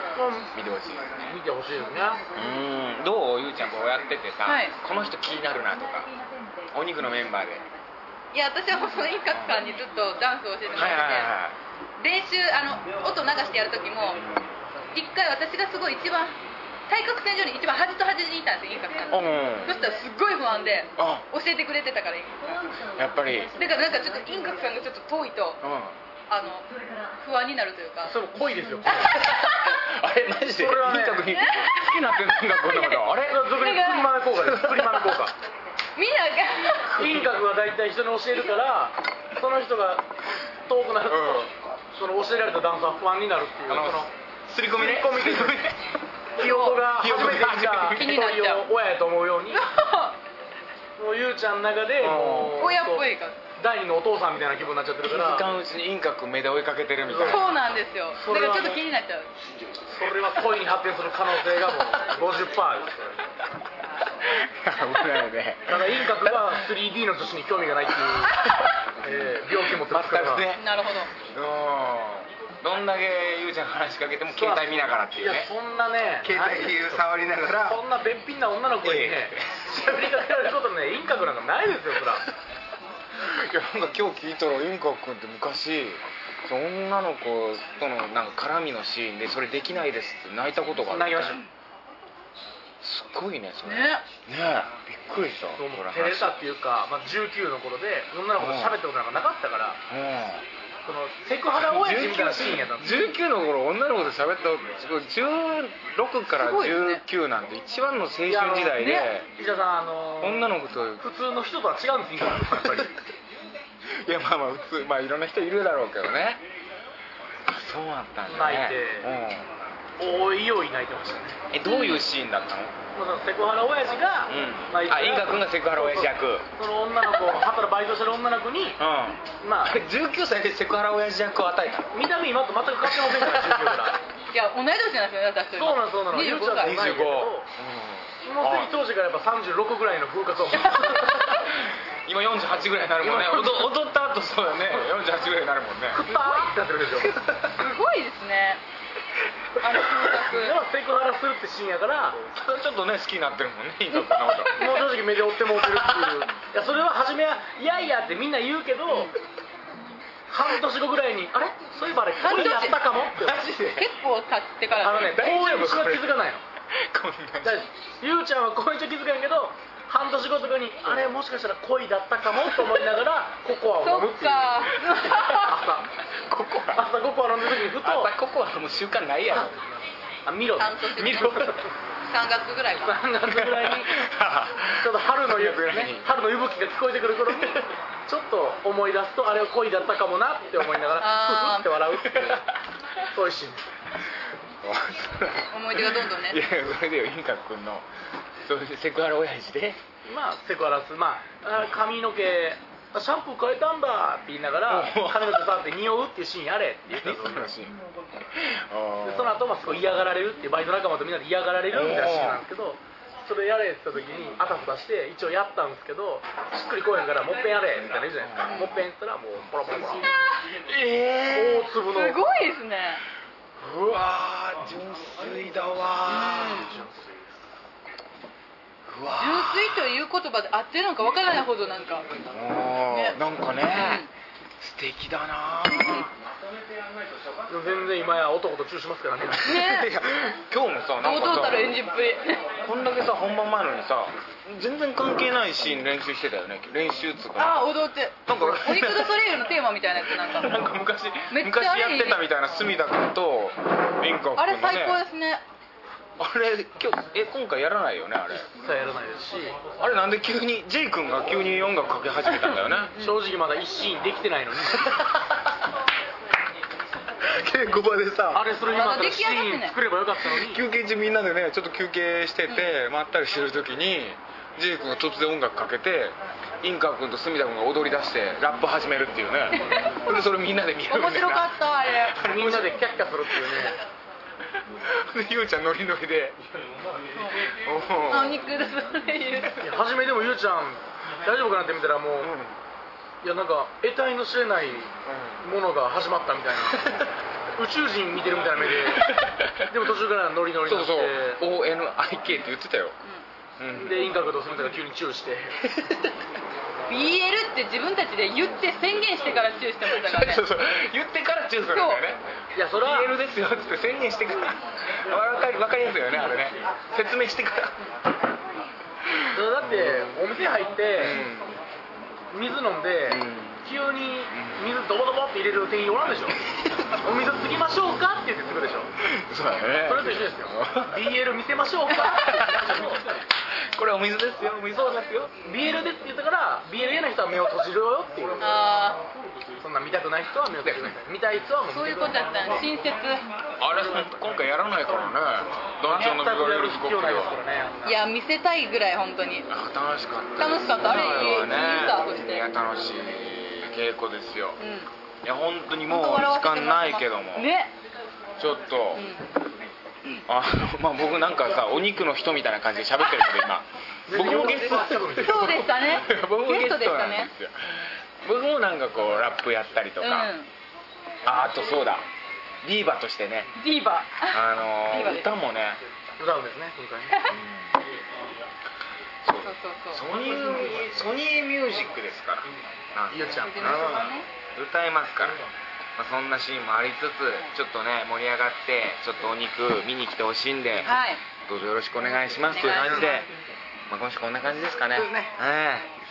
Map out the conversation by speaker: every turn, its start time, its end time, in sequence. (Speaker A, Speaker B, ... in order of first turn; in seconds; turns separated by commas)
Speaker A: 0.1-0.5, Speaker B: 0.5-1.4, Speaker A: 1.2-2.2, Speaker B: 2.3-6.1, Speaker C: 4.4-4.7, Speaker B: 6.7-7.6, Speaker C: 8.3-11.3, Speaker B: 9.3-9.6, Speaker B: 10.7-11.5, Speaker C: 12.0-14.2, Speaker B: 14.2-14.5, Speaker C: 14.9-16.4, Speaker C: 16.9-22.7, Speaker B: 19.1-19.8, Speaker B: 21.0-21.2, Speaker B: 22.9-23.5, Speaker C: 23.5-25.6, Speaker B: 25.6-25.9, Speaker C: 26.3-28.1, Speaker A: 28.0-29.1, Speaker C: 28.9-29.7, Speaker B: 29.0-33.4, Speaker A: 30.5-31.2, Speaker C: 31.3-34.2, Speaker A: 33.1-35.3, Speaker B: 34.3-35.2, Speaker C: 36.0-36.9, Speaker A: 36.9-40.1, Speaker B: 36.9-37.3, Speaker A: 40.7-44.1, Speaker B: 41.0-41.5, Speaker B: 43.7-45.9, Speaker A: 44.7-45.6, Speaker A: 46.4-49.6, Speaker C: 46.4-47.0, Speaker B: 46.9-48.1, Speaker C: 47.9-48.7, Speaker C: 49.5-50.1, Speaker A: 51.0-55.5, Speaker B: 52.0-52.7, Speaker C: 52.6-53.4, Speaker B: 55.0-57.6, Speaker A: 57.0-57.5, Speaker C: 57.2-59.3, Speaker A: 58.2-58.8, Speaker A: 59.9-63.1, Speaker B: 64.2-66.5, Speaker A: 65.7-68.5, Speaker B: 68.3-70.7, Speaker A: 69.0-70.5, Speaker C: 70.5-71.1, Speaker B: 71.2-75.5, Speaker A: 74.3-77.0, Speaker B: 76.2-77.8, Speaker A: 77.6-82.2, Speaker B: 78.8-79.7, Speaker B: 83.2-91.4, Speaker A: 90.9-91.4, Speaker B: 92.8-96.4, Speaker C: 93.6-94.0, Speaker A: 95.5-99.8, Speaker B: 98.4-98.8, Speaker B: 99.9-100.4, Speaker A: 100.8-103.1, Speaker B: 101.5-109.3, Speaker C: 106.4-107.0, Speaker A: 108.3-110.5, Speaker C: 108.8-109.1, Speaker B: 110.2-111.0, Speaker A: 111.0-112.9, Speaker B: 114.0-116.4, Speaker B: 117.5-119.5, Speaker A: 118.3-119.1, Speaker A: 120.0-121.4, Speaker B: 121.5-122.7, Speaker C: 121.6-122.0, Speaker A: 122.9-128.8, Speaker B: 124.3-126.4, Speaker B: 128.8-132.1, Speaker A: 129.4-129.8, Speaker A: 131.9-134.0, Speaker B: 132.8-133.8, Speaker C: 134.3-136.7, Speaker A: 135.5-137.5, Speaker B: 136.6-138.8, Speaker A: 138.2-141.3, Speaker B: 140.5-146.0, Speaker C: 140.8-141.4, Speaker A: 143.0-143.7, Speaker A: 145.9-147.2, Speaker C: 146.1-146.5, Speaker B: 147.0-147.4, Speaker C: 147.5-148.6, Speaker C: 149.6-150.6, Speaker A: 150.3-152.2, Speaker B: 152.2-154.5, Speaker C: 153.9-154.8, Speaker A: 154.6-159.1, Speaker B: 155.6-156.2, Speaker A: 160.3-163.5, Speaker C: 162.2-162.9, Speaker B: 163.1-163.9, Speaker C: 163.6-165.2, Speaker A: 164.8-166.4, Speaker B: 165.1-167.6, Speaker A: 167.4-175.9, Speaker C: 173.8-175.6, Speaker B: 176.3-176.9, Speaker A: 176.7-178.1, Speaker B: 177.6-179.6, Speaker A: 180.2-181.7, Speaker C: 180.6-181.5, Speaker B: 180.9-181.6, Speaker C: 182.1-183.2, Speaker A: 182.8-183.9, Speaker B: 183.3-186.1, Speaker A: 184.8-192.4, Speaker C: 191.0-191.9, Speaker B: 192.1-192.4, Speaker A: 193.1-193.7, Speaker B: 194.6-197.9, Speaker C: 195.5-196.4, Speaker B: 198.4-199.8, Speaker A: 200.1-207.5, Speaker B: 204.7-205.5, Speaker B: 206.9-207.8, Speaker B: 208.3-209.4, Speaker A: 209.0-220.2, Speaker B: 211.7-212.4, Speaker B: 218.3-218.7, Speaker C: 218.4-218.7, Speaker C: 220.1-220.5, Speaker B: 220.6-221.7, Speaker A: 221.2-222.2, Speaker C: 221.7-223.0, Speaker B: 223.6-226.7, Speaker C: 226.1-226.7, Speaker A: 226.5-227.4, Speaker B: 228.9-229.9, Speaker C: 229.1-232.1, Speaker B: 232.3-234.0, Speaker C: 232.9-233.2, Speaker C: 233.7-234.1, Speaker B: 234.6-236.1, Speaker A: 237.5-239.7, Speaker C: 239.4-239.9, Speaker B: 239.5-241.8, Speaker C: 241.0-242.5, Speaker B: 242.6-249.4, Speaker C: 247.3-250.5, Speaker B: 250.0-255.0, Speaker C: 251.3-252.2, Speaker C: 254.3-255.4, Speaker B: 256.2-258.5, Speaker A: 258.4-259.6, Speaker B: 259.8-262.9, Speaker C: 262.5-263.2, Speaker A: 263.0-265.0, Speaker B: 264.8-265.2, Speaker B: 267.2-268.4, Speaker A: 268.3-270.6, Speaker C: 268.7-269.8, Speaker B: 270.2-281.6, Speaker C: 272.5-272.8, Speaker C: 279.6-280.2, Speaker C: 280.9-282.3, Speaker B: 282.1-282.7, Speaker A: 282.2-283.8, Speaker B: 284.8-286.4, Speaker C: 287.1-287.5, Speaker B: 287.6-288.4, Speaker C: 288.1-289.6, Speaker A: 289.6-292.3, Speaker B: 292.2-292.6, Speaker A: 293.2-296.9, Speaker B: 295.1-295.4, Speaker A: 297.6-301.4, Speaker B: 298.9-299.7, Speaker B: 300.6-302.9, Speaker B: 303.6-304.2, Speaker A: 303.7-305.7, Speaker B: 305.7-306.1, Speaker C: 306.9-310.4, Speaker B: 309.8-317.7, Speaker C: 311.7-312.0, Speaker A: 312.5-313.1, Speaker A: 319.3-321.2, Speaker B: 319.6-320.2, Speaker B: 320.9-321.6, Speaker A: 322.3-326.4, Speaker B: 323.1-323.6, Speaker B: 324.3-324.7, Speaker B: 326.5-326.9, Speaker A: 327.0-328.9, Speaker B: 329.0-331.1, Speaker A: 329.8-332.9, Speaker B: 332.1-335.3, Speaker A: 335.4-338.4, Speaker C: 338.4-339.0, Speaker A: 339.6-342.5, Speaker B: 340.6-340.9, Speaker C: 341.7-343.3, Speaker B: 343.6-347.4, Speaker A: 343.7-344.4, Speaker A: 345.8-348.0, Speaker C: 347.8-349.5, Speaker B: 349.5-354.6, Speaker C: 350.4-352.5, Speaker A: 350.9-351.4, Speaker C: 354.6-354.9, Speaker B: 355.2-357.5, Speaker C: 355.9-357.7, Speaker B: 358.4-359.1, Speaker C: 358.9-359.3, Speaker B: 360.3-365.5, Speaker A: 364.1-365.8, Speaker C: 364.2-367.3, Speaker B: 366.0-370.3, Speaker C: 370.0-370.5, Speaker B: 371.2-372.1, Speaker B: 372.6-373.5, Speaker C: 373.6-375.3, Speaker B: 374.3-375.8, Speaker A: 376.2-377.2, Speaker C: 377.1-377.4, Speaker B: 377.3-377.7, Speaker B: 379.2-385.4, Speaker C: 379.3-380.9, Speaker A: 383.1-383.8, Speaker C: 383.2-384.3, Speaker B: 385.9-393.3, Speaker C: 390.8-391.2, Speaker C: 392.5-393.2, Speaker B: 393.9-395.9, Speaker A: 394.9-395.3